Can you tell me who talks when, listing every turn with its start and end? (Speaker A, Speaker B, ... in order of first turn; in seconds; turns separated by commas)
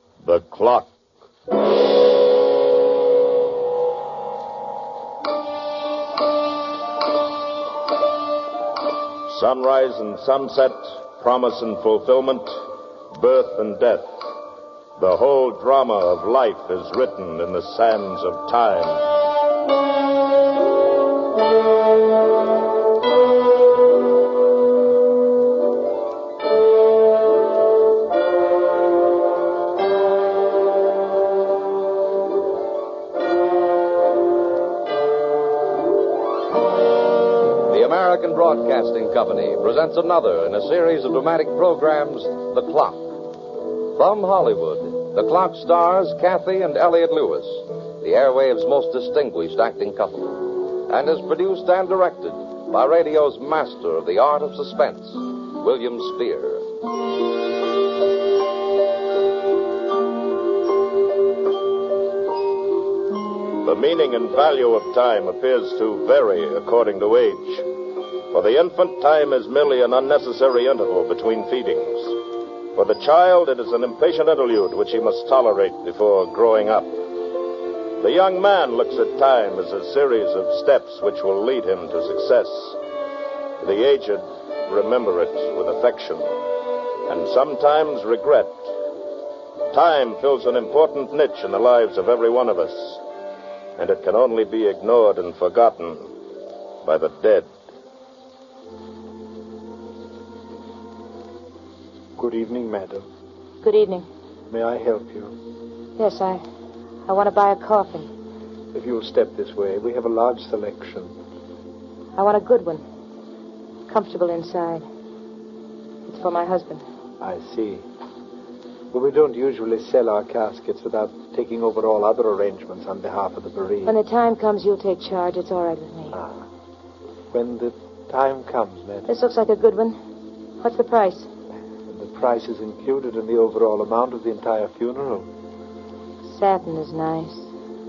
Speaker A: 0.2-0.9, Speaker A: 9.3-14.2, Speaker A: 15.0-19.1, Speaker B: 37.6-43.1, Speaker B: 43.9-56.6, Speaker A: 63.6-67.7, Speaker A: 68.3-72.2, Speaker A: 72.8-77.0, Speaker A: 78.0-82.8, Speaker A: 83.6-86.3, Speaker A: 87.1-88.7, Speaker A: 89.7-93.0, Speaker A: 93.8-96.2, Speaker A: 96.8-97.5, Speaker C: 102.2-103.1, Speaker D: 103.6-104.1, Speaker C: 104.5-105.3, Speaker D: 106.0-106.4, Speaker D: 107.1-108.1, Speaker C: 108.7-111.2, Speaker D: 112.2-112.8, Speaker D: 113.9-114.8, Speaker D: 116.1-116.8, Speaker C: 117.2-117.8, Speaker C: 118.9-124.0, Speaker D: 123.8-126.2, Speaker C: 126.1-126.5, Speaker C: 127.3-129.1, Speaker D: 129.1-130.0, Speaker D: 130.6-131.3, Speaker C: 131.9-135.3, Speaker D: 136.2-137.5